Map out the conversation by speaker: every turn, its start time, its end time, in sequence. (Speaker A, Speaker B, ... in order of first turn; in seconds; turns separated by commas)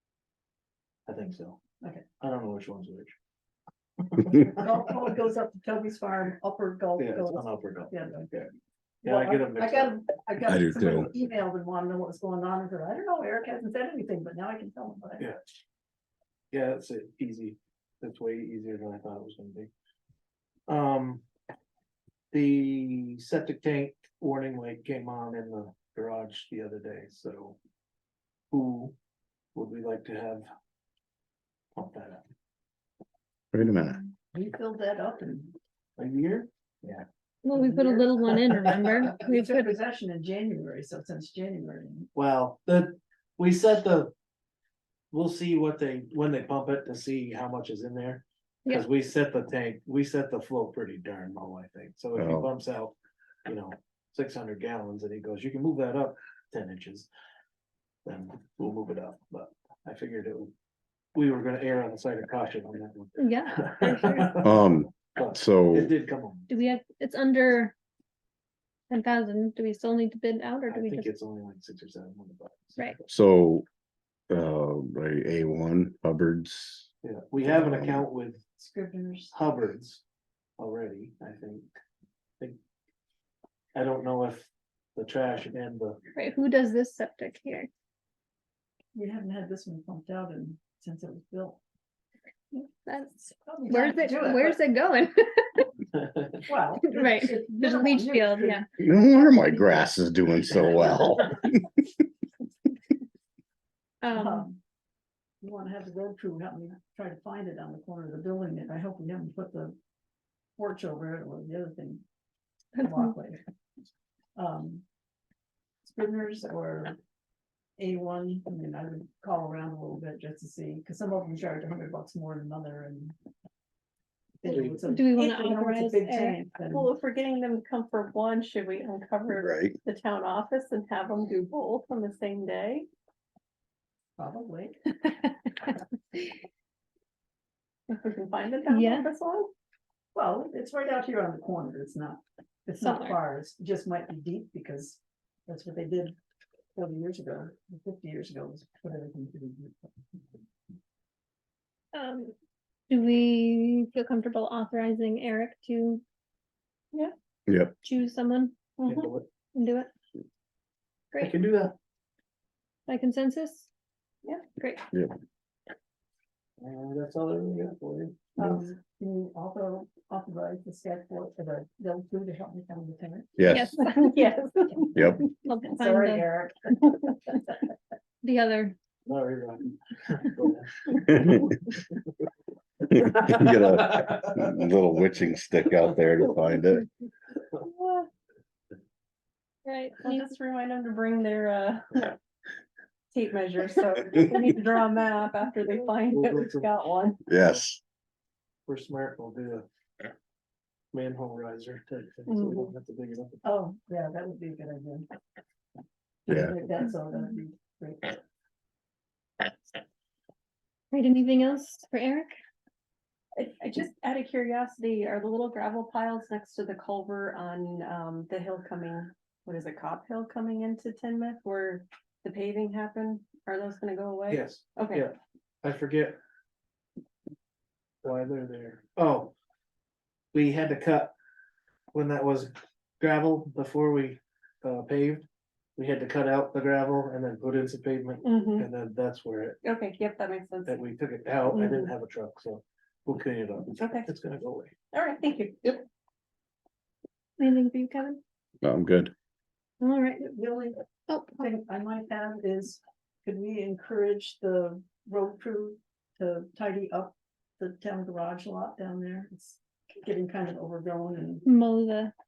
Speaker A: 1.1-1.6, Speaker A: 2.2-3.1, Speaker A: 4.2-4.5, Speaker B: 4.3-8.4, Speaker A: 7.0-8.5, Speaker A: 9.0-10.0, Speaker B: 9.0-15.3, Speaker C: 10.5-11.1, Speaker A: 16.5-19.7, Speaker A: 20.7-21.2, Speaker A: 22.3-27.6, Speaker A: 28.5-28.9, Speaker A: 29.6-30.5, Speaker A: 31.8-32.2, Speaker C: 33.5-34.0, Speaker B: 34.3-35.5, Speaker A: 36.0-37.0, Speaker D: 37.4-39.7, Speaker B: 37.5-38.2, Speaker B: 39.1-42.1, Speaker A: 42.1-44.1, Speaker A: 45.1-53.0, Speaker C: 52.2-52.5, Speaker A: 53.5-57.1, Speaker A: 58.0-60.5, Speaker A: 61.1-66.5, Speaker D: 63.2-64.4, Speaker C: 64.4-65.9, Speaker D: 66.5-67.7, Speaker D: 68.9-71.1, Speaker A: 70.7-73.0, Speaker C: 73.1-73.7, Speaker C: 74.3-76.9, Speaker A: 77.0-78.5, Speaker C: 77.4-78.1, Speaker B: 78.6-79.3, Speaker A: 79.3-80.0, Speaker A: 80.6-81.7, Speaker A: 83.8-86.0, Speaker D: 86.1-87.7, Speaker B: 88.9-91.6, Speaker D: 92.5-95.8, Speaker B: 93.4-94.6, Speaker B: 96.4-98.6, Speaker D: 96.8-98.7, Speaker C: 98.8-101.6, Speaker D: 99.3-99.7, Speaker D: 104.0-104.5, Speaker B: 104.1-104.6, Speaker B: 105.4-109.8, Speaker B: 110.6-112.0, Speaker D: 112.8-113.1, Speaker B: 112.8-113.4, Speaker B: 114.4-114.8, Speaker B: 115.8-117.0, Speaker B: 117.8-123.2, Speaker B: 124.4-126.9, Speaker A: 124.5-124.8, Speaker D: 124.9-126.5, Speaker E: 126.7-132.9, Speaker C: 129.3-129.8, Speaker B: 134.2-134.8, Speaker D: 135.0-136.3, Speaker E: 137.9-139.5, Speaker D: 138.7-139.1, Speaker B: 140.1-146.2, Speaker D: 142.8-143.2, Speaker B: 146.8-150.2, Speaker D: 151.9-152.3, Speaker D: 152.9-156.0, Speaker C: 157.5-157.7, Speaker D: 157.8-158.6, Speaker E: 158.8-159.1, Speaker A: 158.9-159.3, Speaker D: 159.5-159.9, Speaker A: 161.2-161.7, Speaker D: 162.9-163.7, Speaker D: 164.6-164.9, Speaker A: 166.6-168.4, Speaker B: 168.4-173.5, Speaker C: 173.4-173.8, Speaker D: 173.5-174.2, Speaker E: 173.9-175.2, Speaker C: 174.9-175.2, Speaker D: 175.2-176.3, Speaker B: 175.8-176.9, Speaker D: 178.2-178.8, Speaker A: 179.1-181.8, Speaker C: 182.9-186.8, Speaker A: 183.0-184.3, Speaker E: 187.6-188.1, Speaker D: 189.7-190.3, Speaker E: 190.0-192.2, Speaker E: 193.1-197.2, Speaker A: 196.1-196.7, Speaker C: 197.3-197.8, Speaker A: 197.3-197.6, Speaker A: 198.7-199.7, Speaker A: 200.9-203.4, Speaker E: 202.3-202.7, Speaker B: 203.4-205.1, Speaker B: 206.2-208.2, Speaker C: 206.3-206.5, Speaker D: 210.9-212.3, Speaker E: 213.4-225.1, Speaker A: 224.3-226.2, Speaker A: 228.0-229.3, Speaker A: 230.3-231.1, Speaker A: 231.9-235.3, Speaker A: 235.8-239.6, Speaker E: 238.2-238.7, Speaker E: 239.6-240.8, Speaker A: 240.7-244.8, Speaker E: 241.5-241.9, Speaker E: 243.8-244.1, Speaker E: 244.9-245.8, Speaker D: 247.4-248.2, Speaker C: 248.6-249.1, Speaker D: 249.8-250.3, Speaker B: 250.2-250.8, Speaker D: 251.1-251.5, Speaker B: 251.4-261.5, Speaker D: 261.4-262.1